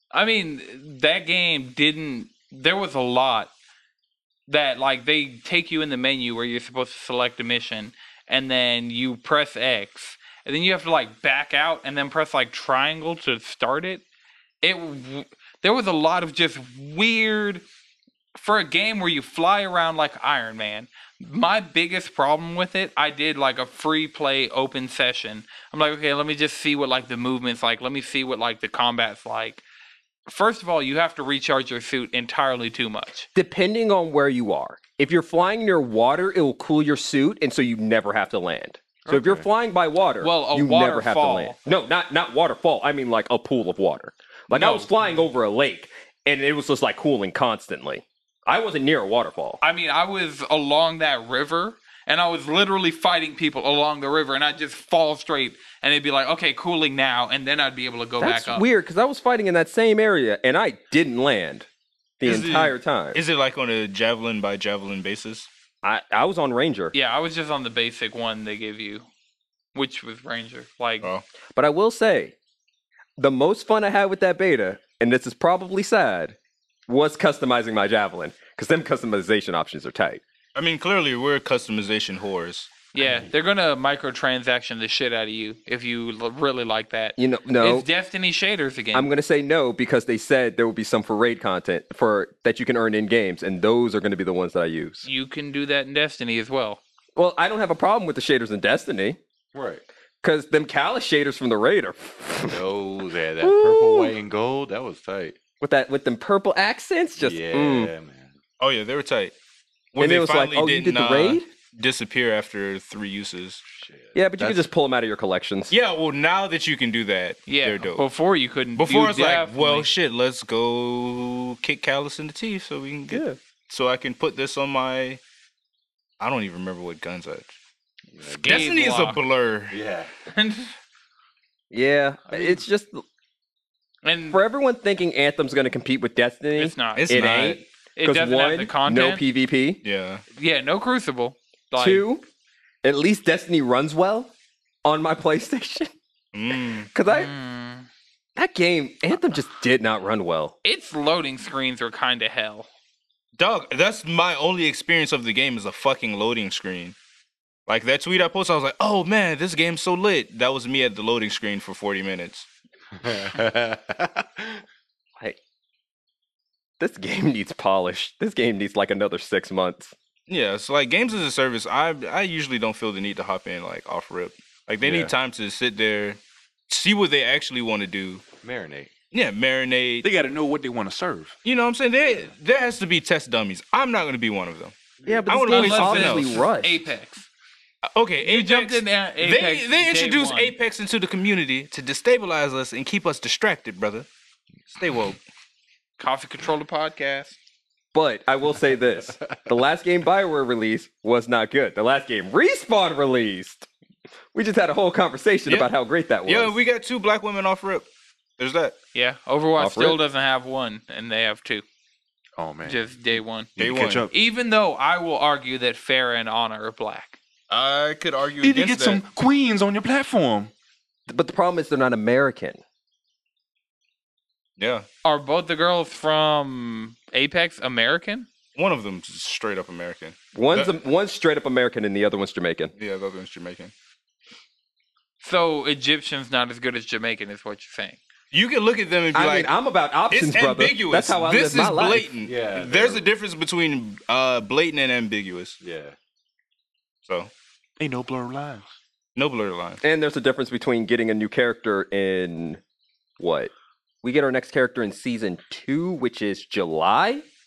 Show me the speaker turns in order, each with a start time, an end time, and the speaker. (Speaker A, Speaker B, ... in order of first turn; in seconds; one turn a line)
Speaker A: 0.1-3.5
Speaker A: 4.5-14.0
Speaker A: 14.6-17.6
Speaker A: 18.3-29.6
Speaker A: 30.3-33.3
Speaker B: 33.3-49.6
Speaker C: 39.0-39.5
Speaker A: 40.2-41.6
Speaker A: 44.5-45.1
Speaker A: 49.6-58.7
Speaker B: 58.2-61.7
Speaker B: 62.2-63.2
Speaker D: 62.2-65.5
Speaker B: 65.8-66.9
Speaker A: 66.9-69.0
Speaker A: 69.7-71.1
Speaker B: 71.5-72.3
Speaker B: 73.2-76.3
Speaker B: 76.9-80.2
Speaker D: 80.5-82.7
Speaker A: 82.9-89.1
Speaker B: 87.2-87.8
Speaker B: 88.9-95.0
Speaker A: 95.0-96.8
Speaker B: 97.2-99.2
Speaker C: 99.5-99.8
Speaker B: 100.2-102.6
Speaker C: 102.4-105.3
Speaker B: 103.4-104.1
Speaker B: 105.6-107.9
Speaker C: 107.2-108.4
Speaker D: 108.6-109.3
Speaker D: 109.9-113.6
Speaker B: 110.0-111.5
Speaker C: 113.7-114.7
Speaker B: 114.1-115.7
Speaker D: 115.7-118.0
Speaker A: 117.5-119.9
Speaker D: 118.8-125.2
Speaker B: 123.1-123.4
Speaker D: 126.2-127.5
Speaker C: 128.1-128.7
Speaker D: 128.3-129.8
Speaker A: 128.4-129.2
Speaker C: 129.7-130.1
Speaker A: 130.2-130.7
Speaker B: 131.7-133.0
Speaker C: 132.3-132.6
Speaker A: 134.0-134.4
Speaker B: 134.3-139.8
Speaker A: 136.5-139.2
Speaker D: 136.9-137.6
Speaker D: 139.8-140.2
Speaker A: 140.3-142.0
Speaker B: 141.8-142.2
Speaker B: 142.8-144.3
Speaker B: 144.8-145.9
Speaker D: 146.3-146.9
Speaker B: 146.9-147.3
Speaker A: 147.1-147.9
Speaker B: 148.3-150.5
Speaker A: 150.6-152.7
Speaker D: 153.3-156.9
Speaker D: 157.7-162.4
Speaker C: 163.0-164.6
Speaker B: 166.8-169.9
Speaker D: 170.3-178.2
Speaker C: 174.8-175.1
Speaker C: 178.4-178.9
Speaker D: 179.1-180.1
Speaker E: 180.0-181.3
Speaker D: 181.4-184.7
Speaker B: 185.0-186.8
Speaker D: 185.3-186.4
Speaker A: 185.4-187.3
Speaker D: 187.8-194.1
Speaker A: 188.2-190.6
Speaker D: 194.7-195.2
Speaker A: 196.0-197.3
Speaker B: 197.9-203.7
Speaker B: 204.3-206.6
Speaker D: 205.5-205.7
Speaker D: 206.2-207.8
Speaker D: 208.4-208.8
Speaker A: 208.9-211.6
Speaker B: 209.6-210.0
Speaker E: 212.4-212.8
Speaker A: 212.6-213.5
Speaker E: 213.6-214.1
Speaker D: 213.6-214.1
Speaker A: 214.1-217.2
Speaker D: 217.5-219.0
Speaker E: 218.4-220.5
Speaker B: 221.1-222.6
Speaker D: 224.6-224.8
Speaker A: 225.0-228.3
Speaker D: 228.5-230.7
Speaker B: 230.3-232.7
Speaker D: 232.8-233.7
Speaker A: 235.2-238.0
Speaker D: 238.3-239.5
Speaker B: 239.1-242.1
Speaker D: 240.1-245.6
Speaker C: 242.2-243.0
Speaker C: 245.6-245.9
Speaker D: 247.0-247.3
Speaker E: 247.8-248.6
Speaker D: 249.2-249.8
Speaker B: 249.8-252.6
Speaker B: 253.2-253.5
Speaker B: 254.0-257.2